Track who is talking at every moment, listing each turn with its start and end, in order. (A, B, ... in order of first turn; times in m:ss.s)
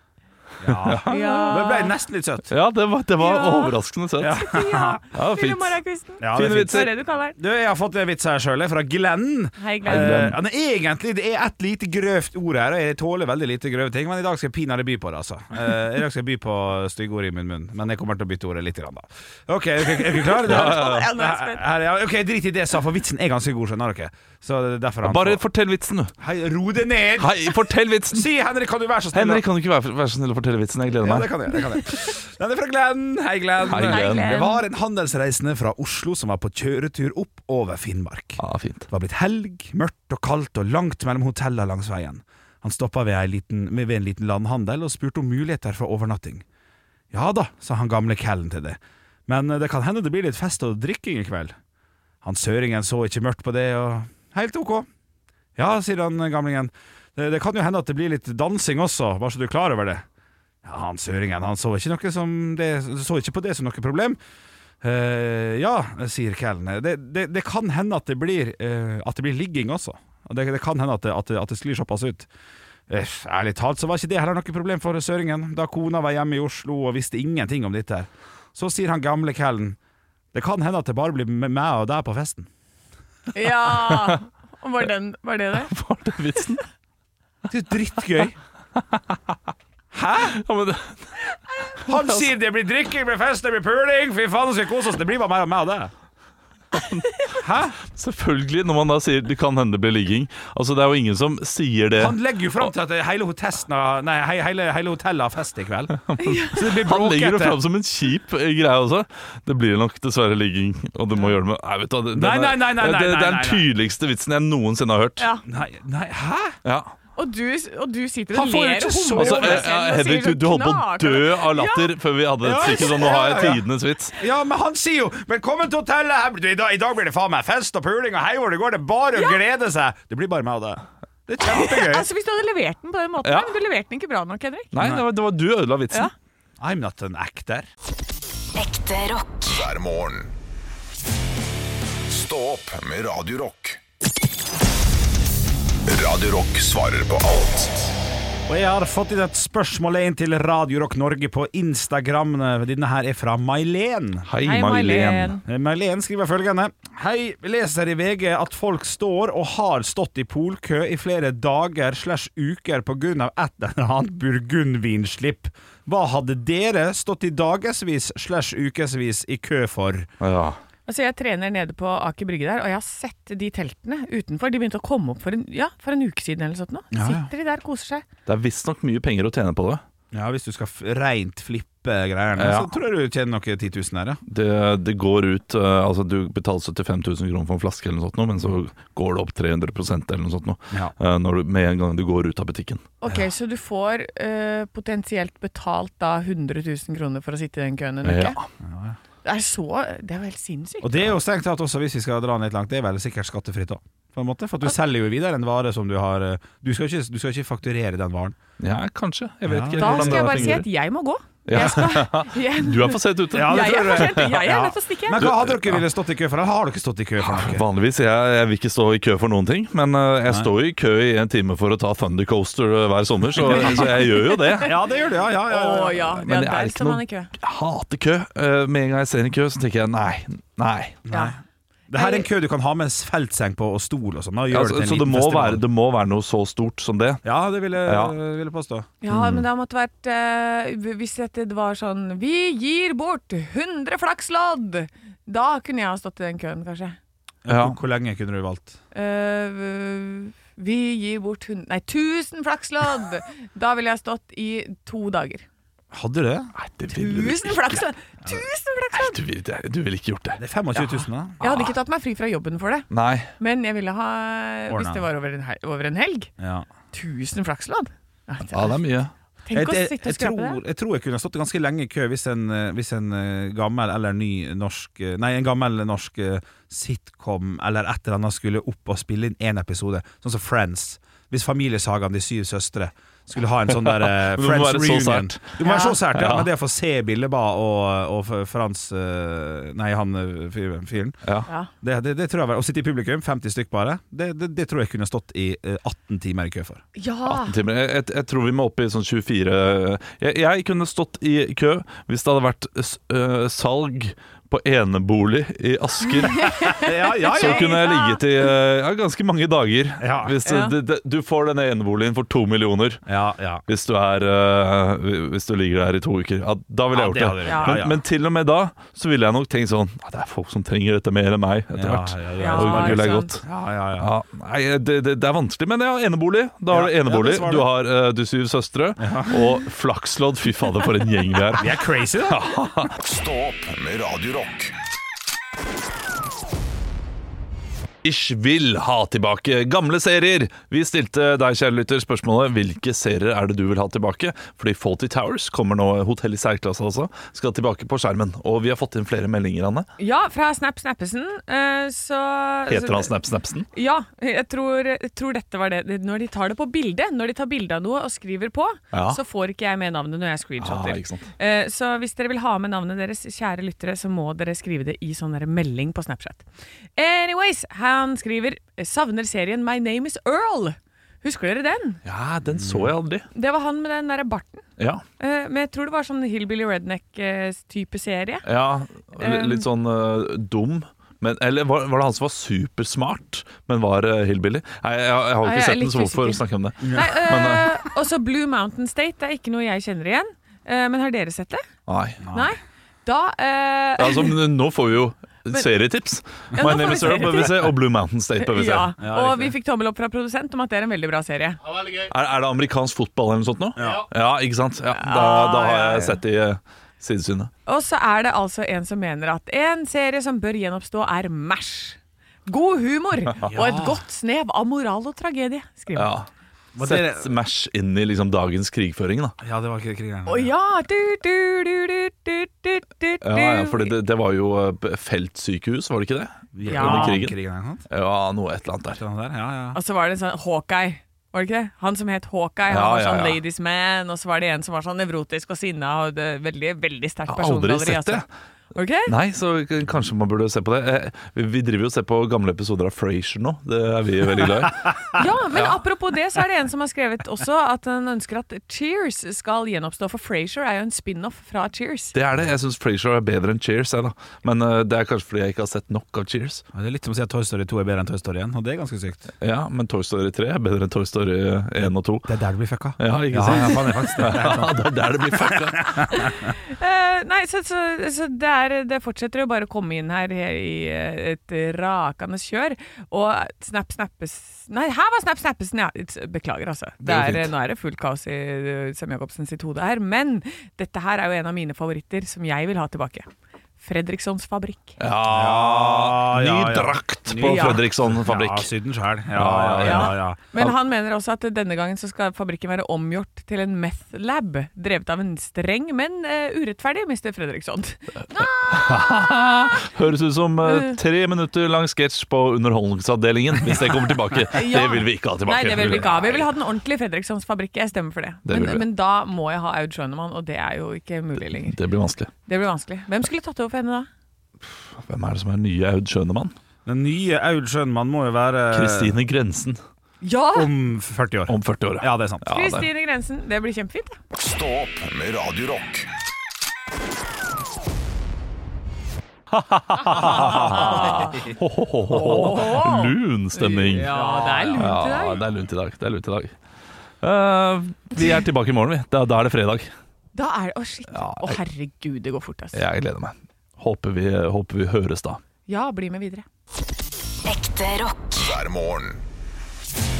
0:00.6-0:02.5 A
0:00.7-0:01.7 B
0:01.0-0:01.9 C
0:02.5-0:04.4 B
0:03.2-0:07.4 C
0:04.2-0:05.0 A
0:05.1-0:05.8 B
0:06.2-0:25.4 A
0:06.3-0:06.9 B
0:09.6-0:10.3 C
0:09.9-0:10.4 B
0:20.2-0:21.1 B
0:20.3-0:21.6 C
0:25.0-0:26.1 B
0:26.2-0:27.6 A
0:27.2-0:28.2 B
0:28.1-0:29.4 A
0:29.1-0:31.3 B
0:31.0-0:46.4 A
0:33.7-0:34.3 B
0:33.8-0:34.6 C
0:38.4-0:38.9 B
0:47.1-0:51.5 A
0:52.2-0:54.9 A
0:55.6-1:00.0 A
1:00.6-1:04.2 A
1:04.8-1:12.3 A
1:12.9-1:19.8 A
1:20.3-1:22.5 A
1:23.3-1:25.7 C
1:25.6-1:26.6 B
1:27.5-1:28.4 A
1:29.9-1:30.4 A
1:30.3-1:32.3 B
1:31.9-1:35.9 A
1:36.7-1:37.1 B
1:37.4-1:37.8 A
1:37.8-1:42.7 B
1:42.0-1:45.9 A
1:45.9-1:55.2 B
1:46.2-1:46.6 C
1:46.5-1:47.6 A
1:52.1-1:53.6 A
1:55.2-1:55.4 C
1:55.5-1:56.6 A
1:56.6-1:56.9 B
1:57.2-2:01.9 C
1:58.3-1:59.6 A
1:59.2-2:04.2 B
2:02.4-2:03.6 A
2:02.6-2:03.3 C
2:04.2-2:12.1 A
2:09.1-2:09.4 C
2:11.4-2:14.7 C
2:13.2-2:13.5 B
2:14.7-2:16.1 B
2:14.8-2:15.0 A
2:16.6-2:17.7 A
2:18.5-2:19.6 D
2:19.5-2:20.3 E
2:22.1-2:23.8 E
2:25.9-2:27.9 E
2:28.5-2:34.3 A
2:34.3-2:35.4 B
2:34.4-2:35.4 C
2:35.4-2:50.1 A
2:50.2-2:50.6 B
2:50.9-2:58.0 C
2:56.9-2:57.3 A
2:58.3-2:59.8 B
3:00.1-3:04.2 A
3:02.4-3:02.7 B
3:04.3-3:12.8 B
3:13.0-3:18.4 C
3:18.0-3:18.4 B
3:18.6-3:19.0 A
3:19.2-3:21.1 C
3:20.8-3:28.4 A
3:28.6-3:30.6 B
3:29.4-3:30.6 A
3:29.8-3:35.3 C
3:31.4-3:34.5 B
3:33.3-3:37.6 A
3:35.2-3:35.8 B
3:37.2-3:44.8 B
3:40.3-3:40.5 A
3:43.4-3:44.7 C
3:43.6-3:43.9 A
3:44.6-3:46.1 A
3:45.5-3:47.3 C
3:46.2-3:51.0 B
3:51.0-3:55.6 A
3:51.1-3:51.4 C
3:51.9-3:52.3 C
3:54.5-3:57.2 B
3:57.2-3:58.9 A
3:57.8-3:58.2 B
3:59.0-4:07.0 C
3:59.1-3:59.4 B
4:07.4-4:08.8 A
4:07.5-4:07.8 B
4:08.9-4:15.4 C
4:15.9-4:16.5 A
4:16.6-4:17.9 B
4:16.9-4:19.2 C
4:18.9-4:20.4 B
4:20.4-4:21.4 A
4:20.8-4:22.9 C
4:22.9-4:23.3 B
4:23.4-4:26.3 C
4:24.7-4:25.0 A
4:26.4-4:26.7 A
4:26.9-4:28.8 C
4:28.5-4:29.1 B
4:29.4-4:30.6 C
4:29.5-4:51.2 A
4:43.7-4:45.5 B
4:45.6-4:46.0 C
4:46.1-4:46.5 B
4:51.8-4:56.8 A
4:57.0-4:57.6 C
4:57.2-5:13.0 B
5:06.2-5:08.2 C
5:06.7-5:07.8 A
5:10.0-5:10.3 A
5:10.4-5:10.7 C
5:13.1-5:13.6 A
5:13.7-5:23.4 B
5:16.9-5:18.0 A
5:17.4-5:17.8 C
5:21.7-5:24.1 A
5:22.4-5:23.3 C
5:24.0-5:31.7 B
5:26.7-5:27.7 A
5:29.0-5:29.4 A
5:31.6-5:32.5 A
5:32.3-5:32.9 B
5:33.0-5:34.7 E
5:38.0-5:49.9 B
5:50.0-5:53.1 C
5:52.7-5:53.7 B
5:53.7-6:12.0 C
5:58.9-5:59.2 B
6:00.6-6:01.3 B
6:12.0-6:13.3 B
6:12.6-6:12.9 A
6:13.3-6:14.6 C
6:14.8-6:15.0 B
6:15.2-6:18.5 C
6:18.4-6:27.7 B
6:19.2-6:19.6 C
6:25.4-6:31.6 C
6:26.8-6:27.2 A
6:31.9-6:32.2 B
6:32.2-6:32.5 A
6:32.3-6:34.4 C
6:34.0-6:38.9 B
6:36.6-6:37.8 C
6:38.4-6:41.6 C
6:39.0-6:39.5 A
6:41.9-6:47.5 B
6:43.8-6:44.1 A
6:44.9-6:46.2 C
6:47.6-6:56.1 C
6:53.5-6:54.0 A
6:55.9-6:56.3 B
6:56.7-6:57.3 A
6:56.8-6:59.3 B
6:59.4-7:00.5 A
7:00.3-7:03.9 C
7:03.2-7:07.4 B
7:06.6-7:07.8 A
7:06.6-7:07.2 C
7:07.9-7:09.0 B
7:08.9-7:09.8 A
7:09.7-7:19.1 C
7:12.7-7:13.4 B
7:17.3-7:18.3 B
7:19.0-7:25.8 B
7:25.1-7:32.1 C
7:32.1-7:36.6 B
7:36.7-7:39.3 A
7:39.4-7:42.3 B
7:42.2-7:46.0 A
7:43.0-7:46.3 B
7:46.1-8:03.3 C
7:57.0-7:57.5 B
8:03.8-8:05.0 C
8:05.0-8:08.7 B
8:05.3-8:10.4 A
8:07.4-8:07.8 C
8:09.3-8:10.7 B
8:09.8-8:19.1 C
8:18.4-8:26.5 B
8:20.6-8:21.0 C
8:24.5-8:31.8 C
8:28.4-8:28.8 B
8:31.6-8:32.3 B
8:32.4-8:34.1 C
8:34.9-8:36.5 B
8:36.9-8:39.2 A
8:38.7-8:39.8 B
8:40.2-8:40.7 C
8:40.5-8:42.4 A
8:41.5-8:42.9 B
8:42.5-8:44.2 C
8:44.3-8:46.1 E
8:49.5-8:54.1 B
8:50.1-8:51.5 C
8:50.4-8:51.0 A
8:52.1-8:55.4 C
8:54.1-8:55.0 A
8:54.7-8:56.5 B
8:57.2-8:59.9 B
9:00.3-9:02.8 C
9:01.1-9:01.6 B
9:02.7-9:05.4 B
9:05.7-9:06.4 C
9:07.4-9:08.5 D
9:08.4-9:09.2 E